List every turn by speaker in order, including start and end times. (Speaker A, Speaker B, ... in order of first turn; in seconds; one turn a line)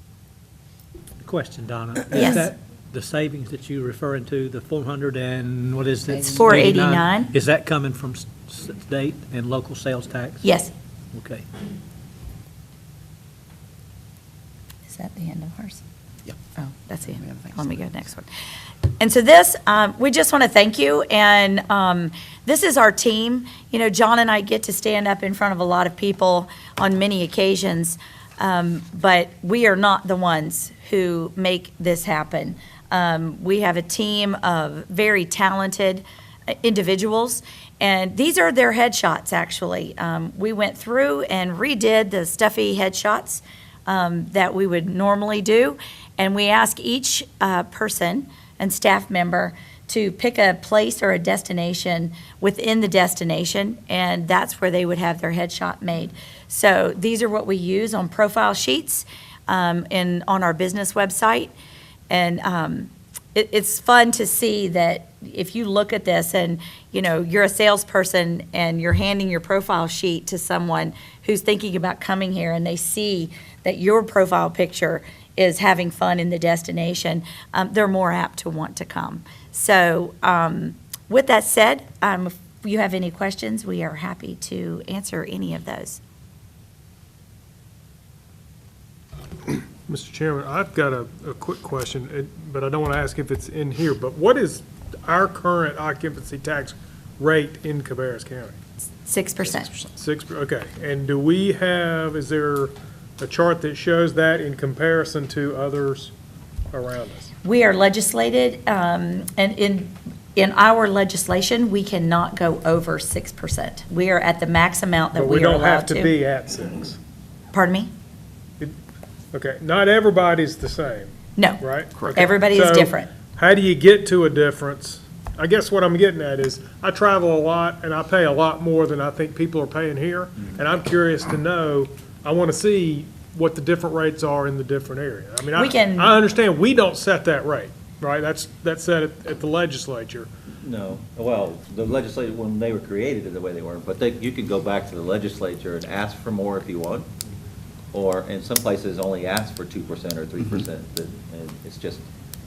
Speaker A: 1.2-10.4
Speaker B: 2.1-2.5
Speaker B: 6.3-7.3
Speaker B: 10.4-10.7
Speaker A: 11.1-11.4
Speaker B: 14.9-15.8
Speaker B: 16.6-18.3
Speaker B: 19.0-61.5
Speaker B: 62.1-86.0
Speaker C: 89.9-98.5
Speaker B: 99.0-99.7
Speaker C: 99.9-106.1
Speaker C: 106.7-107.3
Speaker B: 107.4-116.1
Speaker C: 115.1-117.0
Speaker B: 117.5-117.9
Speaker C: 119.3-121.1
Speaker C: 121.6-140.3
Speaker B: 122.1-123.1
Speaker B: 135.5-136.2
Speaker D: 140.6-147.1
Speaker D: 147.9-152.1